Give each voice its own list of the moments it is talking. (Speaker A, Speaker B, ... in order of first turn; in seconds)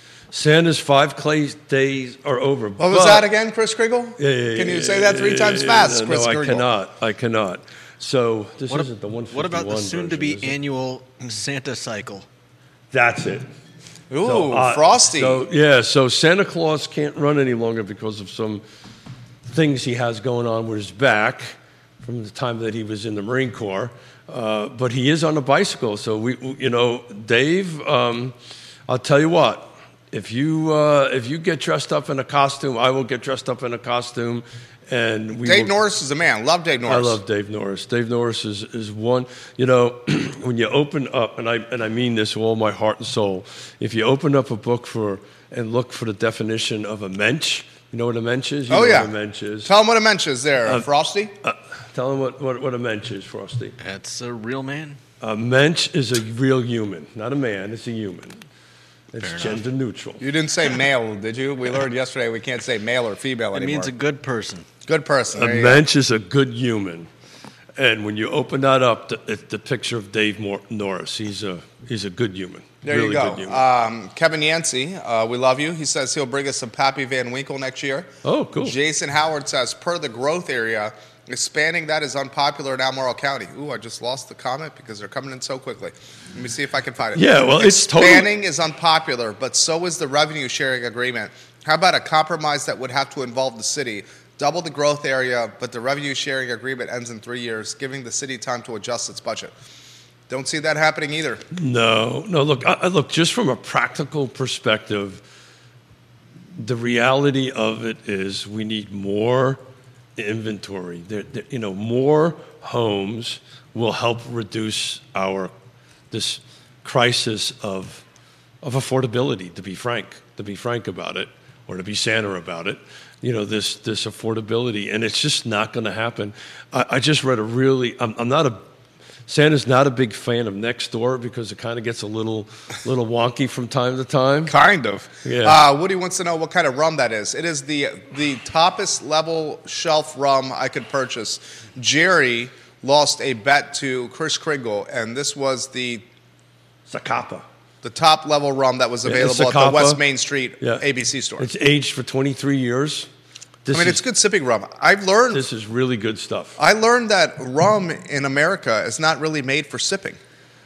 Speaker A: 0.3-3.3, 4.2-10.5, 12.9-13.4, 14.2-18.6, 19.4-28.3, 28.9-35.7, 36.9-49.7, 51.4-53.8, 55.2-58.4, 59.1-60.2, 65.3-67.1, 67.8-73.6, 78.2-78.8, 87.1-88.3, 101.5-105.2, 106.6-109.6, 110.2-115.5, 116.1-118.0, 118.6-128.6, 129.3-134.5, 135.2-135.6, 146.9-147.4, 149.0-150.0, 151.4-153.1, 153.6-154.0, 155.3-156.6
Speaker B: 2.8-6.7, 14.1-15.4, 35.4-37.2, 48.7-51.3, 60.2-63.9, 64.8-65.8, 72.8-99.5, 100.3-101.4, 134.5-146.1, 147.8-151.5, 153.7-155.5, 156.6-160.2
Speaker C: 8.7-12.2, 53.8-55.0, 59.2-59.6, 63.5-64.7